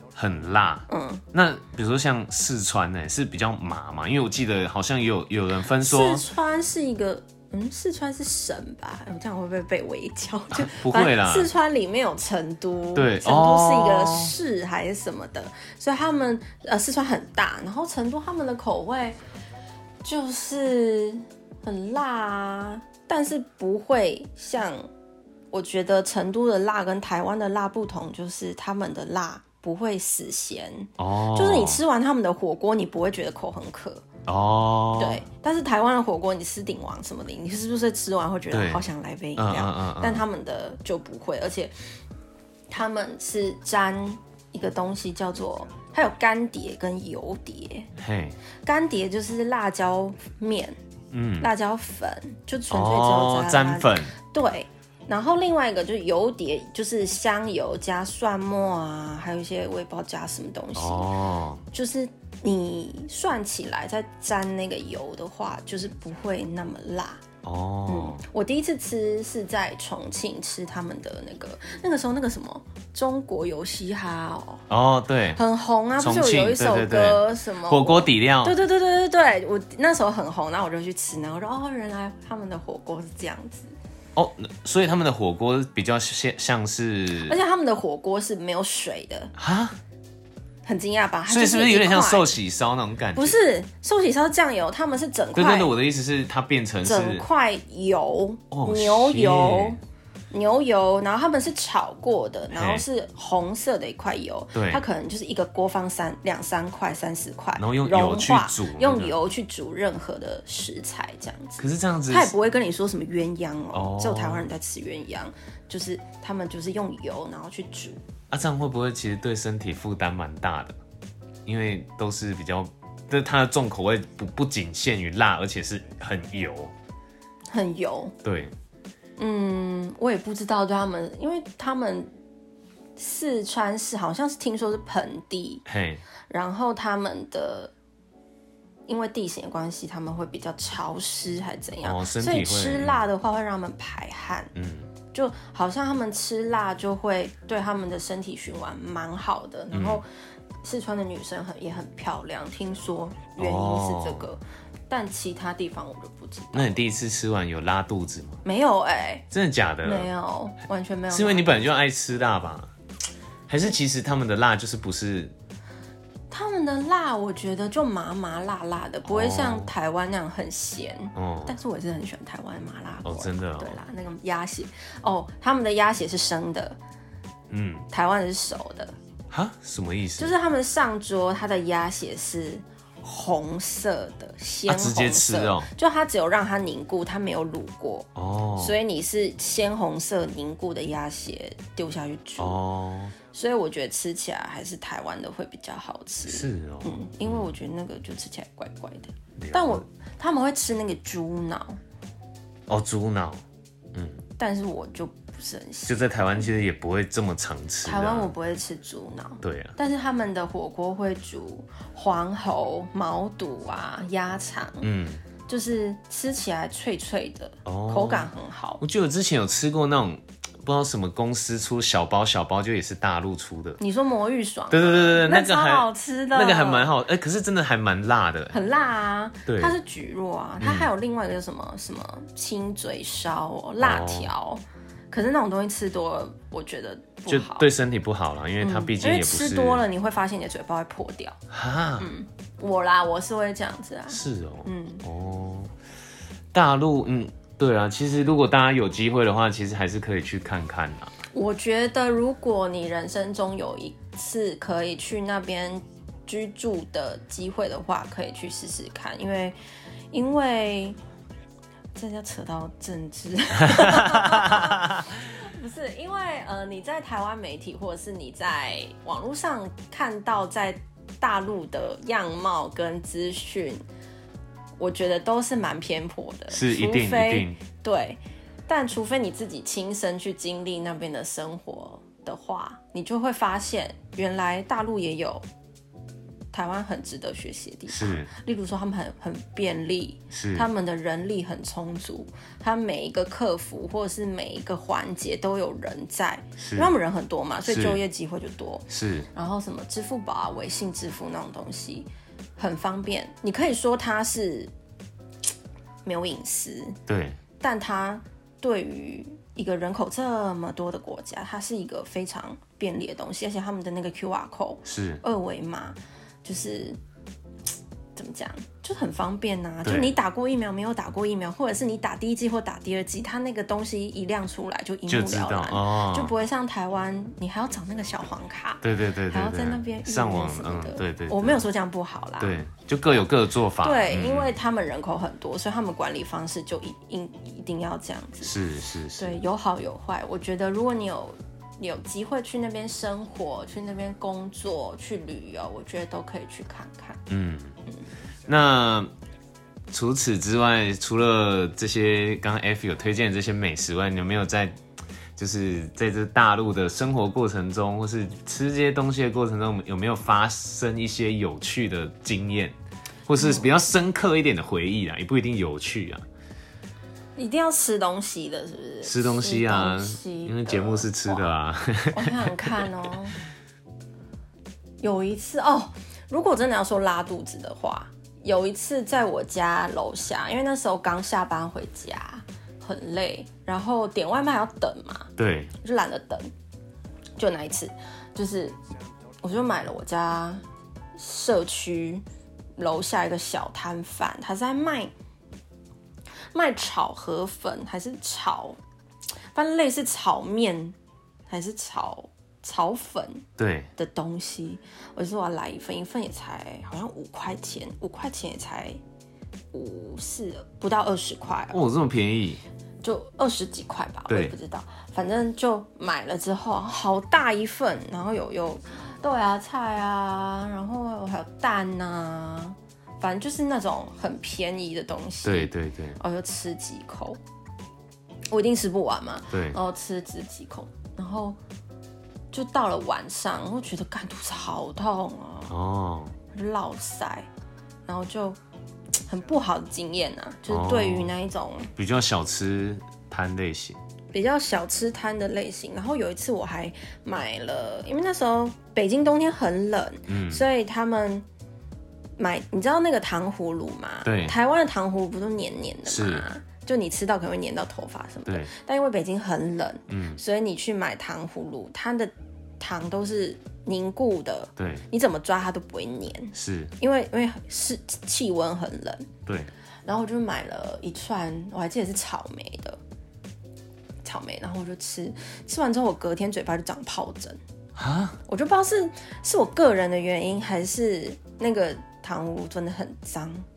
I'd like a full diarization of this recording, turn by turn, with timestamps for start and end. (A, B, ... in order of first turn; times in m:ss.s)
0:00.2-0:06.2 A
0:00.9-0:01.2 B
0:05.8-0:19.2 B
0:10.5-0:11.5 A
0:13.0-0:14.3 A
0:20.0-0:24.9 B
0:25.5-0:34.0 B
0:31.0-0:31.8 A
0:34.3-0:35.2 A
0:35.0-0:41.7 B
0:38.5-0:38.9 A
0:39.4-0:40.2 A
0:42.7-0:47.9 B
0:48.0-0:48.4 A
0:48.6-0:50.8 B
0:51.1-0:51.5 A
0:51.4-1:01.1 B
0:52.7-0:54.1 A
1:00.8-1:01.6 A
1:01.7-1:07.2 B
1:07.4-1:08.2 A
1:07.9-1:14.6 B
1:14.7-1:15.4 A
1:15.4-1:23.7 B
1:16.0-1:18.6 A
1:24.2-1:27.4 A
1:27.2-1:29.3 B
1:29.4-1:29.8 A
1:30.7-1:32.3 B
1:31.3-1:33.4 A
1:33.2-1:35.7 B
1:35.3-1:37.2 A
1:36.8-1:39.8 B
1:38.5-1:39.8 A
1:40.3-1:58.0 B
1:42.5-1:42.8 A
1:44.5-1:44.8 A
1:47.6-1:49.2 A
1:51.6-1:52.3 A
1:53.7-1:54.5 A
1:58.3-2:00.8 A
2:01.5-2:06.7 A
2:07.5-2:08.2 B
2:08.2-2:08.5 A
2:09.2-2:12.1 B
2:13.0-2:15.6 B
2:15.7-2:16.0 A
2:16.3-2:17.7 B
2:18.9-2:24.5 B
2:21.8-2:23.0 A
2:24.6-2:24.9 A
2:25.1-2:30.1 B
2:29.7-2:30.0 A
2:30.6-2:36.8 B
2:33.4-2:34.3 A
2:36.5-2:38.4 A
2:38.4-2:39.3 B
2:39.3-2:40.1 A
2:39.8-2:41.8 B
2:41.1-2:42.7 A
2:43.5-2:45.3 A
2:46.3-2:56.8 B
2:49.1-2:49.7 A
2:51.2-2:51.6 A
2:53.0-2:53.8 A
2:57.5-2:57.9 A
2:57.9-2:58.9 B
2:59.3-3:00.3 A
3:00.2-3:12.6 B
3:04.7-3:05.7 A
3:08.2-3:08.8 A
3:12.4-3:13.2 A
3:13.3-3:21.8 B
3:16.3-3:17.5 A
3:19.4-3:19.8 A
3:22.7-3:23.4 A
3:23.9-3:24.2 A
3:24.4-3:26.5 B
3:25.9-3:28.3 A
3:27.8-3:34.9 B
3:29.4-3:29.8 A
3:34.8-3:35.2 A
3:35.5-3:38.8 B
3:37.6-3:43.8 A
3:43.8-3:46.9 B
3:44.7-3:48.6 A
3:48.5-3:57.7 B
3:49.5-3:49.8 A
3:50.6-3:50.9 A
3:53.8-3:54.3 A
3:57.3-3:59.8 A
3:58.6-4:01.4 B
4:01.5-4:02.1 A
4:02.0-4:05.0 B
4:04.1-4:05.7 A
4:06.5-4:11.1 A
4:11.3-4:19.6 B
4:20.1-4:21.0 B
4:22.0-4:33.8 B
4:23.6-4:25.1 A
4:34.8-4:45.4 B
4:36.5-4:37.6 A
4:46.5-5:04.7 B
4:47.9-4:48.3 A
4:50.3-4:50.7 A
4:56.6-4:56.9 A
4:57.7-4:58.0 A
4:58.9-4:59.3 A
5:06.0-5:07.0 B
5:07.1-5:07.4 A
5:07.6-5:17.0 B
5:14.8-5:15.2 A
5:18.2-5:32.6 B
5:19.8-5:20.2 A
5:25.1-5:26.3 A
5:28.8-5:31.6 A
5:32.4-5:34.6 A
5:33.8-5:38.6 B
5:38.4-5:39.4 A
5:39.2-5:47.2 B
5:47.3-5:47.8 A
5:48.5-5:49.1 A
5:49.9-5:54.8 A
5:55.4-6:02.8 A
6:03.3-6:06.2 A
6:03.4-6:03.7 B
6:07.4-6:11.5 B
6:09.0-6:12.9 A
6:12.1-6:13.4 B
6:15.0-6:26.5 B
6:25.4-6:25.7 A
6:27.4-6:28.8 B
6:29.4-6:30.6 B
6:31.2-6:32.2 B
6:32.8-6:35.1 B
6:36.5-6:38.8 B
6:39.5-6:41.0 B
6:41.5-6:43.4 B
6:43.6-6:43.9 A
6:44.0-6:49.0 B
6:49.7-6:51.8 B
6:51.7-6:52.6 A
6:53.0-7:07.4 B
6:54.3-6:54.6 A
7:05.4-7:06.2 A
7:08.5-7:11.6 B
7:09.5-7:09.8 A
7:12.5-7:15.8 B
7:15.7-7:16.4 A
7:16.5-7:17.5 B
7:18.1-7:18.6 B
7:19.3-7:21.9 B
7:20.7-7:21.3 A
7:22.0-7:24.0 A
7:24.3-7:31.4 B
7:30.3-7:30.6 A
7:32.4-7:49.3 B
7:34.2-7:34.6 A
7:36.1-7:36.5 A
7:38.5-7:38.7 A
7:40.1-7:40.4 A
7:44.8-7:45.0 A
7:46.5-7:46.9 A
7:50.1-7:53.0 B
7:54.2-7:57.6 B
7:58.0-7:58.4 A
7:58.5-8:03.7 B